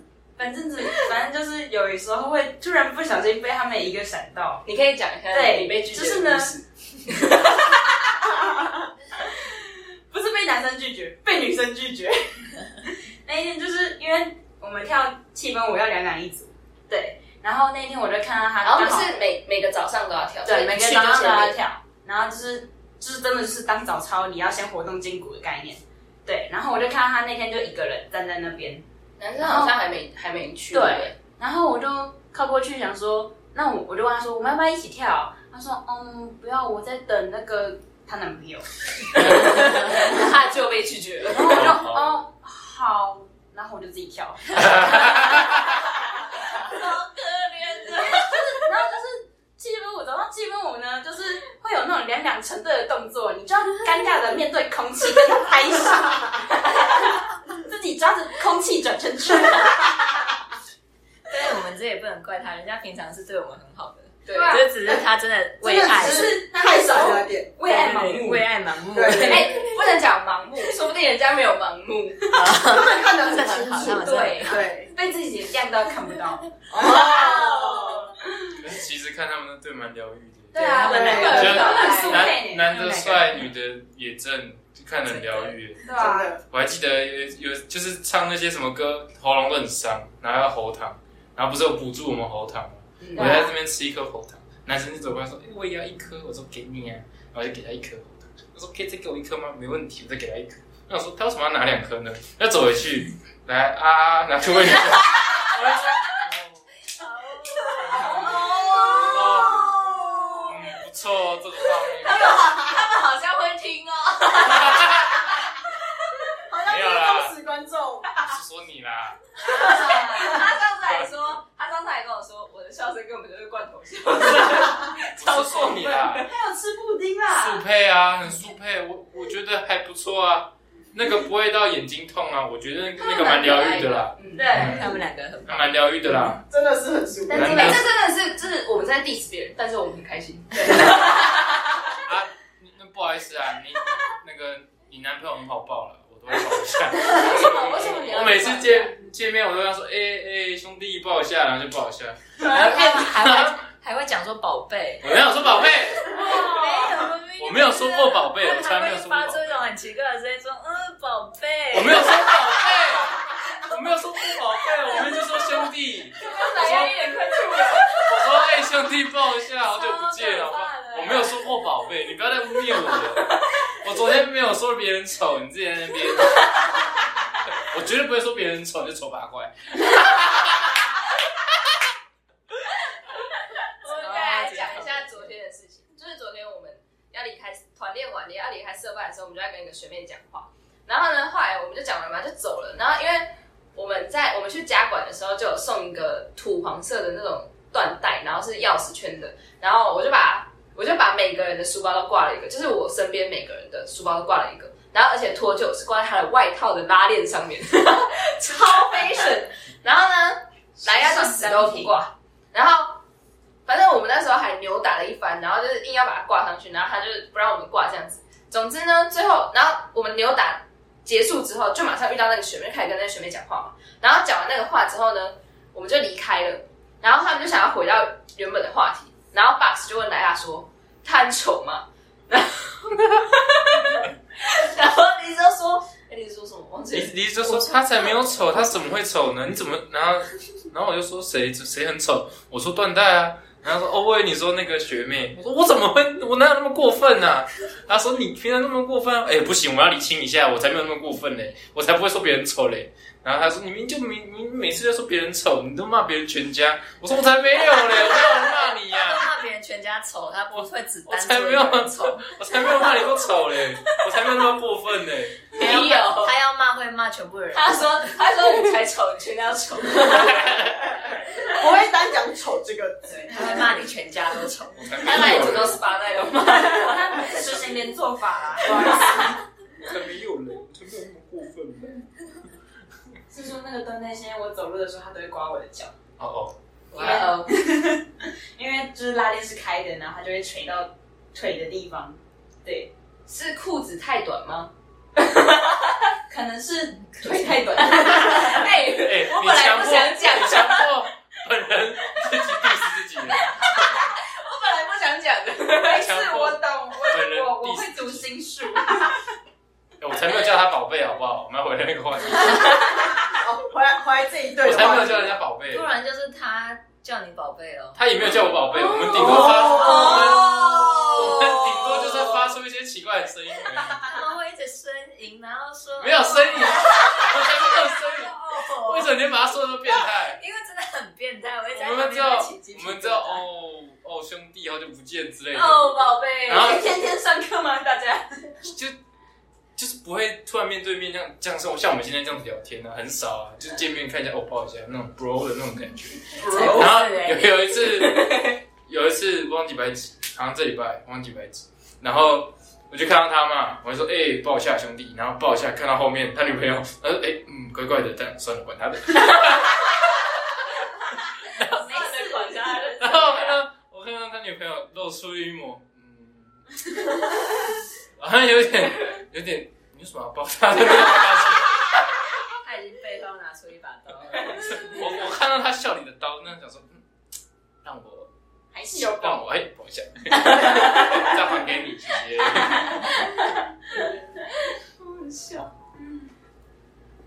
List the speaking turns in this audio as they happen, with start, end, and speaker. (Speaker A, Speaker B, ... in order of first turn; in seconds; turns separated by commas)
Speaker A: 0.4-4.6, Speaker B: 4.7-8.0, Speaker A: 5.3-6.6, Speaker A: 8.1-19.1, Speaker B: 18.6-21.6, Speaker A: 20.4-28.8, Speaker B: 29.2-31.2, Speaker A: 29.4-29.8, Speaker A: 30.7-40.2, Speaker B: 39.1-41.7, Speaker A: 41.2-45.8, Speaker C: 41.4-42.2, Speaker C: 44.6-45.7, Speaker A: 46.5-47.1, Speaker D: 46.8-48.3, Speaker A: 47.7-60.1, Speaker D: 61.3-66.4, Speaker B: 64.3-64.7, Speaker A: 64.3-64.8, Speaker E: 65.6-67.5, Speaker A: 65.7-68.5, Speaker D: 67.6-69.7, Speaker E: 68.9-69.6, Speaker B: 69.2-72.4, Speaker D: 72.3-74.7, Speaker E: 72.6-74.9, Speaker B: 73.9-74.6, Speaker A: 74.9-78.6, Speaker E: 76.7-78.1, Speaker C: 78.5-85.8, Speaker A: 80.5-83.2, Speaker D: 80.8-82.3, Speaker E: 80.8-81.6, Speaker B: 81.0-82.3, Speaker D: 82.8-83.1, Speaker D: 85.1-85.5, Speaker A: 85.8-86.3, Speaker E: 86.0-86.4, Speaker C: 86.4-106.7, Speaker B: 93.0-93.4, Speaker A: 93.1-93.5, Speaker B: 105.2-105.4, Speaker D: 107.0-109.1, Speaker B: 107.7-109.6, Speaker E: 108.0-110.5, Speaker C: 109.1-109.7, Speaker C: 110.4-112.4, Speaker B: 112.0-115.5, Speaker C: 114.4-115.3, Speaker E: 116.4-118.2, Speaker C: 116.7-117.3, Speaker C: 118.2-119.2, Speaker A: 119.4-120.4, Speaker B: 119.4-125.9, Speaker C: 120.8-121.1, Speaker C: 124.9-126.3, Speaker A: 125.4-127.7, Speaker C: 127.3-134.9, Speaker D: 133.0-135.8, Speaker B: 134.2-134.5, Speaker A: 134.2-135.0, Speaker C: 135.5-136.4, Speaker E: 136.5-137.8, Speaker B: 137.3-141.9, Speaker C: 137.3-137.9, Speaker A: 140.6-141.0, Speaker C: 142.0-153.7, Speaker B: 147.0-149.0, Speaker A: 152.4-152.7, Speaker D: 152.5-155.3, Speaker B: 152.5-152.9, Speaker C: 155.0-156.1, Speaker D: 156.0-162.8, Speaker B: 156.1-156.9, Speaker A: 156.1-157.0, Speaker C: 157.4-159.7, Speaker C: 161.7-167.0, Speaker B: 166.2-168.1, Speaker A: 166.2-167.9, Speaker C: 168.0-176.5, Speaker A: 169.8-171.0, Speaker B: 170.2-171.2, Speaker C: 177.5-181.7, Speaker B: 183.7-213.0, Speaker D: 183.9-185.1, Speaker A: 210.8-211.9, Speaker B: 213.7-238.1, Speaker C: 236.9-259.3, Speaker D: 258.9-262.3, Speaker C: 260.6-265.4, Speaker D: 265.5-268.1, Speaker B: 265.6-266.4, Speaker B: 267.5-270.6, Speaker C: 270.2-270.9, Speaker E: 271.4-273.7, Speaker D: 273.3-275.5, Speaker C: 274.7-275.8, Speaker B: 275.0-277.6, Speaker A: 276.4-279.4, Speaker B: 278.9-279.1, Speaker C: 279.8-282.1, Speaker A: 283.3-285.9, Speaker C: 286.2-286.6, Speaker B: 286.9-287.5, Speaker D: 286.9-287.3, Speaker A: 287.0-292.9, Speaker B: 293.3-296.1, Speaker A: 296.3-298.8, Speaker B: 297.8-300.9, Speaker C: 298.9-303.9, Speaker B: 303.5-306.0, Speaker A: 305.8-309.2, Speaker C: 305.9-308.3, Speaker C: 310.0-312.8, Speaker E: 313.2-315.4, Speaker C: 314.6-315.9, Speaker D: 315.7-322.0, Speaker C: 317.9-324.1, Speaker B: 319.2-320.6, Speaker E: 319.5-320.0, Speaker D: 324.0-329.1, Speaker C: 326.0-330.4, Speaker D: 329.9-333.4, Speaker C: 331.7-336.9, Speaker A: 335.9-338.6, Speaker C: 338.6-339.0, Speaker C: 339.8-359.9, Speaker D: 346.4-347.5, Speaker E: 346.4-346.9, Speaker C: 361.6-361.8, Speaker B: 361.6-363.6, Speaker A: 361.7-362.9, Speaker C: 363.0-367.3, Speaker C: 368.2-372.0, Speaker D: 372.5-375.1, Speaker C: 374.6-377.0, Speaker C: 377.8-378.3, Speaker A: 378.7-379.4, Speaker C: 378.9-383.1, Speaker A: 380.5-381.4, Speaker A: 382.6-383.3, Speaker B: 385.0-385.7, Speaker A: 385.9-386.3